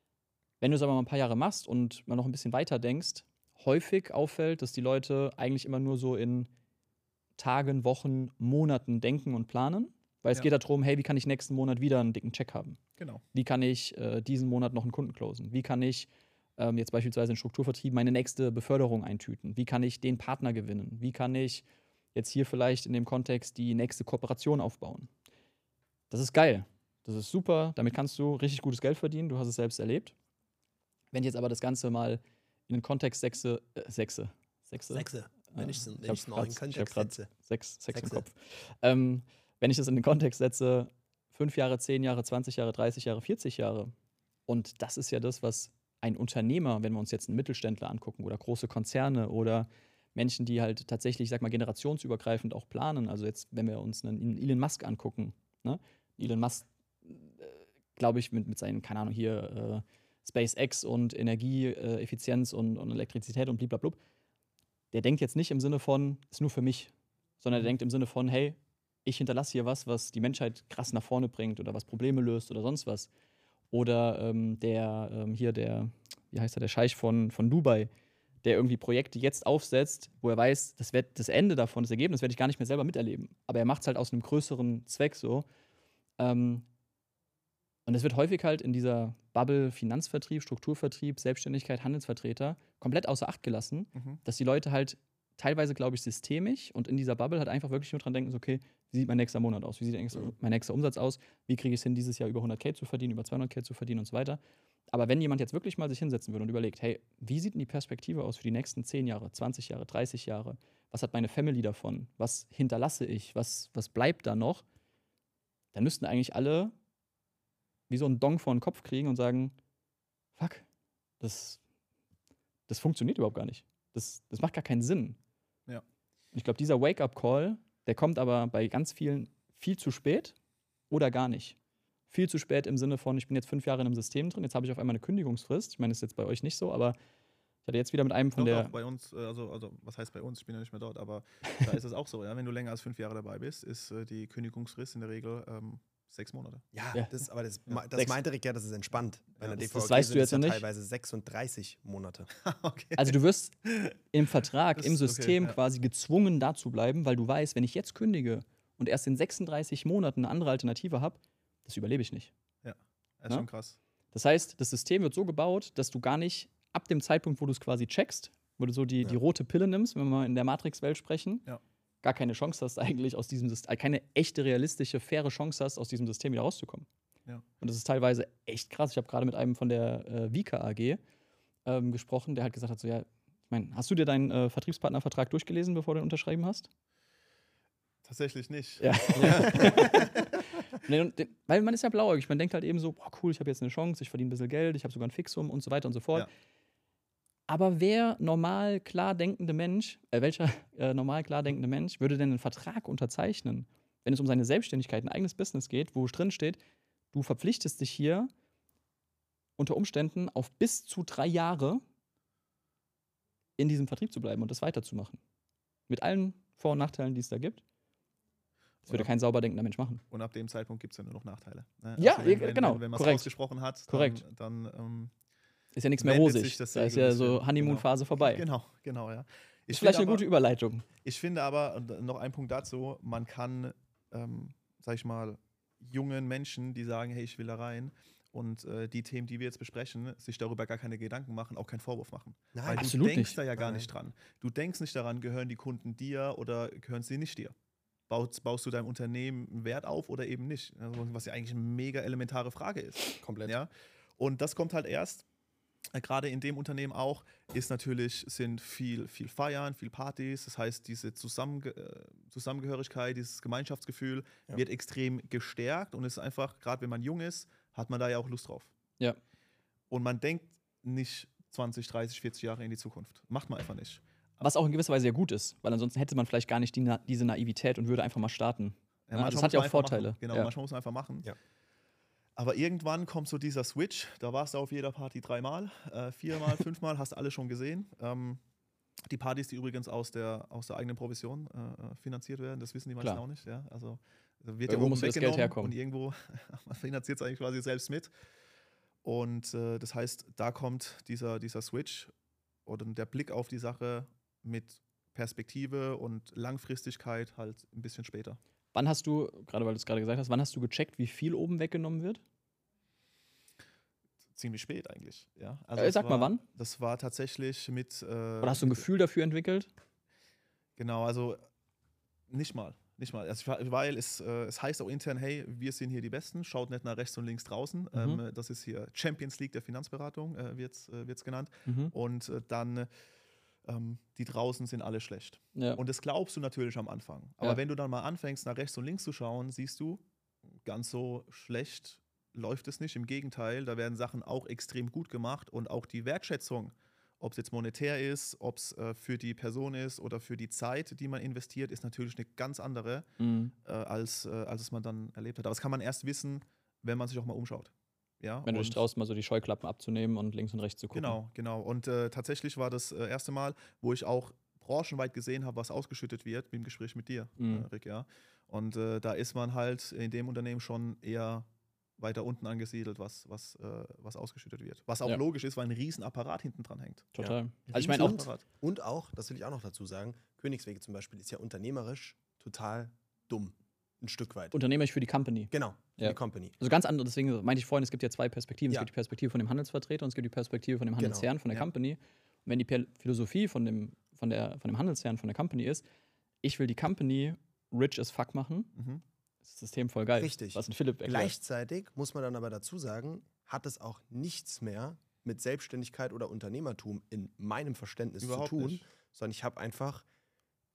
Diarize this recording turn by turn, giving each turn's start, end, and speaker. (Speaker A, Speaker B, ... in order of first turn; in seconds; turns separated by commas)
Speaker A: 0.6-6.5, Speaker A: 7.4-12.8, Speaker B: 13.0-13.2, Speaker A: 13.3-21.6, Speaker A: 22.1-25.1, Speaker A: 26.1-30.1, Speaker A: 31.1-43.9, Speaker C: 34.9-37.3, Speaker C: 37.9-38.2, Speaker A: 44.5-64.0, Speaker A: 64.9-73.1, Speaker A: 73.7-77.9, Speaker A: 78.4-85.5, Speaker A: 86.2-86.7, Speaker A: 87.8-104.4, Speaker B: 93.9-94.2, Speaker A: 104.9-114.6, Speaker A: 115.7-116.7, Speaker A: 117.9-119.5, Speaker A: 120.4-120.7, Speaker A: 121.2-121.6, Speaker A: 122.7-125.2, Speaker A: 126.3-130.3, Speaker A: 130.9-131.6, Speaker A: 132.1-137.0, Speaker A: 137.7-138.7, Speaker B: 138.3-146.6, Speaker C: 146.7-152.3, Speaker A: 149.5-150.6, Speaker B: 152.4-154.0, Speaker A: 153.0-162.3, Speaker B: 154.8-155.6, Speaker B: 162.6-163.8, Speaker A: 164.1-171.5, Speaker A: 172.0-176.9, Speaker A: 177.6-181.0, Speaker A: 181.7-186.7, Speaker B: 188.0-190.4, Speaker A: 188.8-190.2, Speaker C: 189.2-190.0, Speaker A: 190.7-196.3, Speaker A: 197.5-206.6, Speaker A: 207.1-208.3, Speaker A: 209.6-211.8, Speaker A: 213.6-215.2, Speaker A: 215.9-217.6, Speaker B: 218.8-219.1, Speaker A: 218.9-220.0, Speaker B: 220.1-225.1, Speaker A: 222.0-223.3, Speaker A: 223.9-224.2, Speaker A: 225.7-228.4, Speaker B: 226.0-230.2, Speaker A: 229.7-230.8, Speaker B: 231.0-247.5, Speaker C: 242.5-242.9, Speaker A: 242.7-243.3, Speaker C: 243.5-243.9, Speaker B: 248.1-255.2, Speaker C: 253.2-253.6, Speaker B: 255.9-268.7, Speaker B: 269.9-274.0, Speaker A: 274.4-280.5, Speaker B: 279.1-281.3, Speaker B: 282.4-288.4, Speaker B: 289.1-298.1, Speaker A: 294.7-295.8, Speaker B: 299.0-302.1, Speaker B: 302.6-308.4, Speaker A: 308.7-312.2, Speaker B: 314.4-318.9, Speaker A: 315.8-316.4, Speaker A: 318.4-319.7, Speaker B: 320.8-321.4, Speaker B: 322.3-332.9, Speaker A: 327.9-328.2, Speaker A: 331.6-331.9, Speaker B: 333.6-340.0, Speaker A: 335.6-335.8, Speaker B: 340.6-353.1, Speaker A: 353.2-353.5, Speaker B: 353.6-358.9, Speaker A: 358.5-361.1, Speaker B: 360.9-371.5, Speaker A: 367.4-367.7, Speaker B: 372.0-377.1, Speaker A: 377.1-378.3, Speaker C: 377.2-384.6, Speaker B: 377.7-378.4, Speaker A: 384.5-395.8, Speaker C: 385.5-386.6, Speaker C: 391.0-391.3, Speaker A: 396.4-398.7, Speaker B: 398.8-399.0, Speaker A: 399.4-401.3, Speaker C: 400.1-410.1, Speaker B: 408.2-408.8